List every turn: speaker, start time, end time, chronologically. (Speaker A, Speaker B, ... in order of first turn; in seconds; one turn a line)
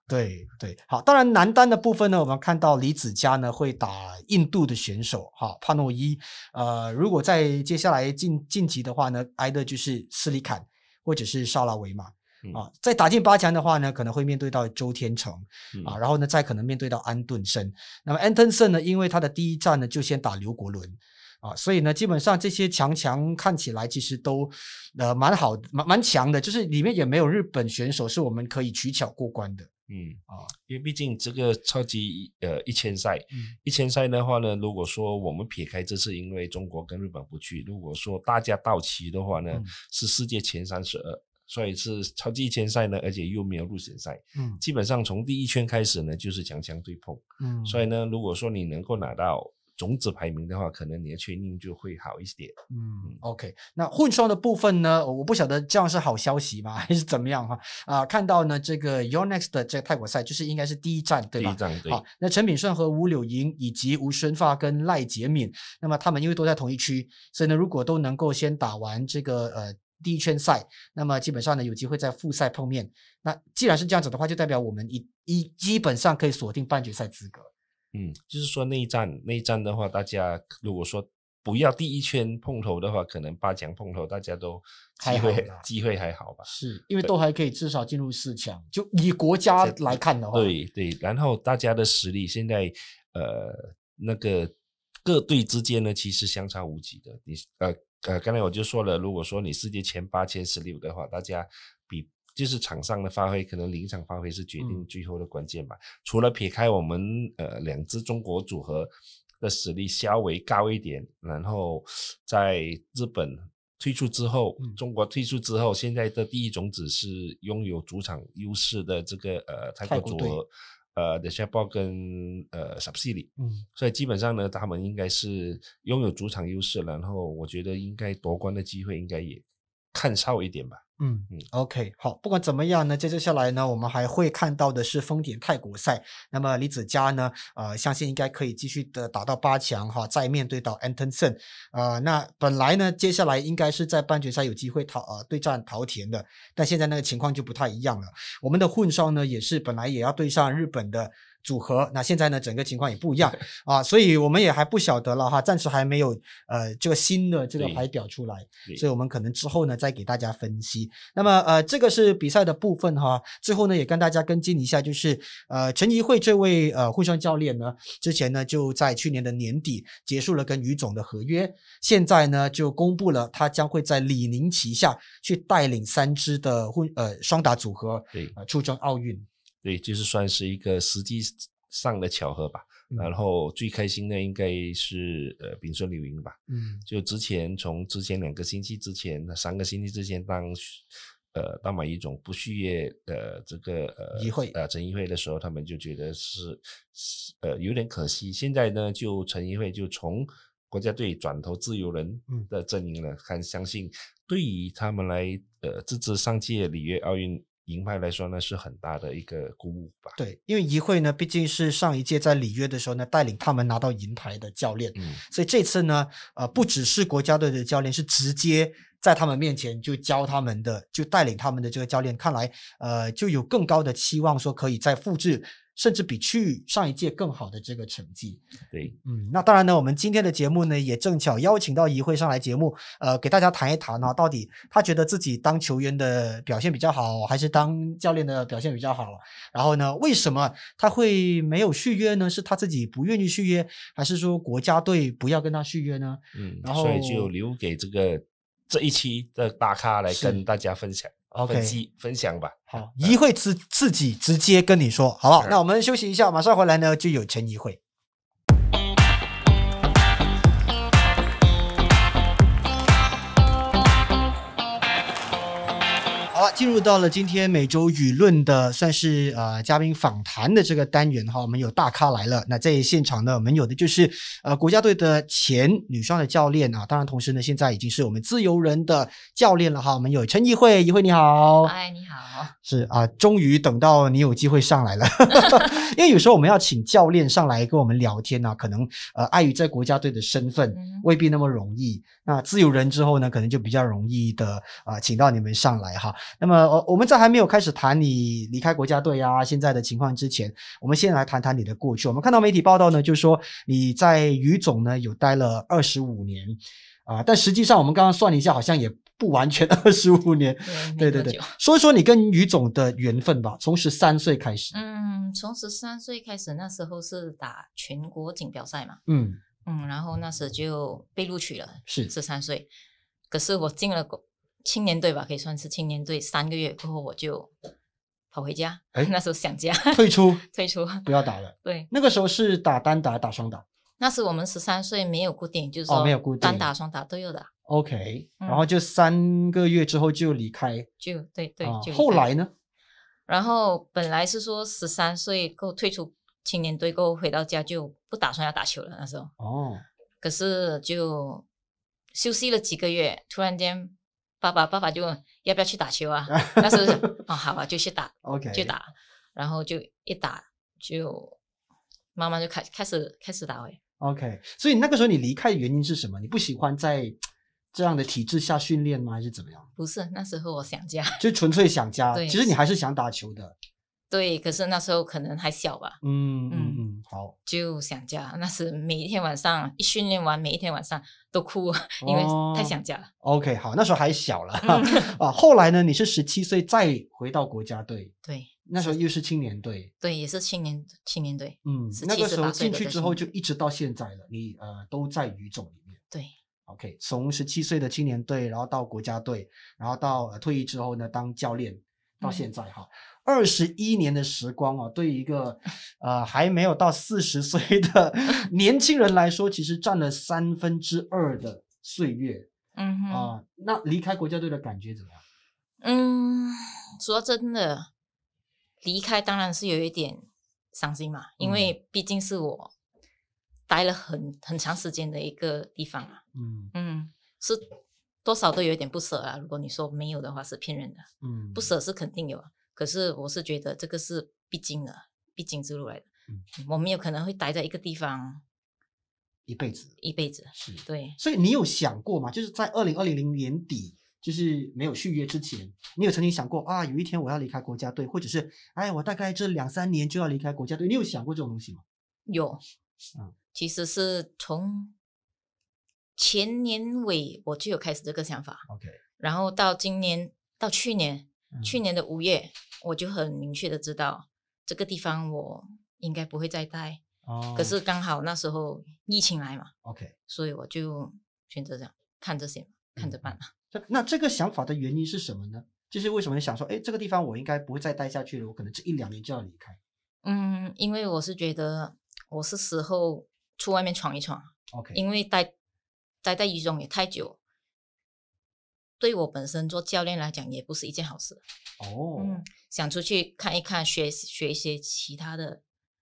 Speaker A: 0.1-29.7
Speaker B: 29.9-53.2
Speaker A: 44.4-44.6
Speaker A: 47.4-47.8
Speaker A: 52.7-77.5
Speaker B: 61.4-62.0
Speaker B: 77.9-86.5
Speaker A: 85.0-85.7
Speaker A: 86.5-90.5
Speaker B: 89.6-94.5
Speaker B: 95.0-129.4
Speaker A: 119.8-120.4
Speaker A: 123.4-123.6
Speaker B: 129.9-131.5
Speaker A: 131.0-179.3
Speaker B: 179.6-210.2
Speaker A: 186.5-186.8
Speaker A: 194.2-194.6
Speaker A: 210.2-228.4
Speaker A: 229.0-247.3
Speaker B: 246.3-253.2
Speaker A: 250.1-250.4
Speaker A: 251.3-251.8
Speaker A: 252.7-257.8
Speaker A: 266.3-281.7
Speaker C: 281.6-282.5
Speaker A: 282.6-314.8
Speaker C: 290.7-291.1
Speaker C: 310.6-311.6
Speaker C: 314.7-319.0
Speaker A: 319.1-319.4
Speaker C: 319.6-322.7
Speaker A: 321.9-322.1
Speaker C: 323.3-327.5
Speaker C: 328.3-331.1
Speaker A: 329.9-330.4
Speaker A: 331.0-333.6
Speaker C: 331.6-331.9
Speaker C: 334.0-337.5
Speaker A: 335.9-336.7
Speaker A: 337.7-340.9
Speaker C: 338.4-338.7
Speaker C: 341.0-342.3
Speaker A: 341.6-342.5
Speaker C: 343.3-349.3
Speaker A: 349.4-349.8
Speaker C: 350.2-351.4
Speaker C: 352.1-361.4
Speaker A: 356.3-357.1
Speaker A: 358.2-358.7
Speaker C: 362.1-363.8
Speaker A: 364.0-367.2
Speaker A: 367.7-369.7
Speaker C: 369.8-371.2
Speaker A: 371.2-373.6
Speaker C: 372.1-372.5
Speaker C: 374.1-376.0
Speaker A: 376.0-377.4
Speaker C: 376.5-376.8
Speaker C: 377.4-383.1
Speaker A: 382.0-388.1
Speaker C: 384.6-385.1
Speaker C: 388.2-389.0
Speaker A: 388.7-389.9
Speaker C: 390.0-393.3
Speaker A: 391.6-396.0
Speaker A: 396.7-412.5
Speaker C: 402.2-402.5
Speaker C: 412.8-413.3
Speaker A: 413.1-415.2
Speaker C: 415.8-417.9
Speaker C: 418.8-422.7
Speaker A: 421.4-421.7
Speaker C: 423.7-426.2
Speaker A: 426.3-426.7
Speaker C: 426.7-427.6
Speaker C: 428.2-438.4
Speaker A: 431.2-431.7
Speaker A: 439.5-440.0
Speaker C: 440.0-441.2
Speaker A: 440.5-451.8
Speaker C: 452.3-452.6
Speaker C: 453.5-454.9
Speaker C: 456.2-458.7
Speaker A: 458.7-459.0
Speaker C: 459.2-467.0
Speaker A: 461.5-461.8
Speaker A: 467.2-467.8
Speaker C: 467.6-469.7
Speaker A: 469.8-470.1
Speaker C: 470.3-473.5
Speaker A: 473.0-479.8
Speaker C: 480.2-485.5
Speaker A: 484.7-485.0
Speaker C: 486.2-487.4
Speaker C: 489.0-491.4
Speaker A: 491.8-492.4
Speaker C: 492.2-495.6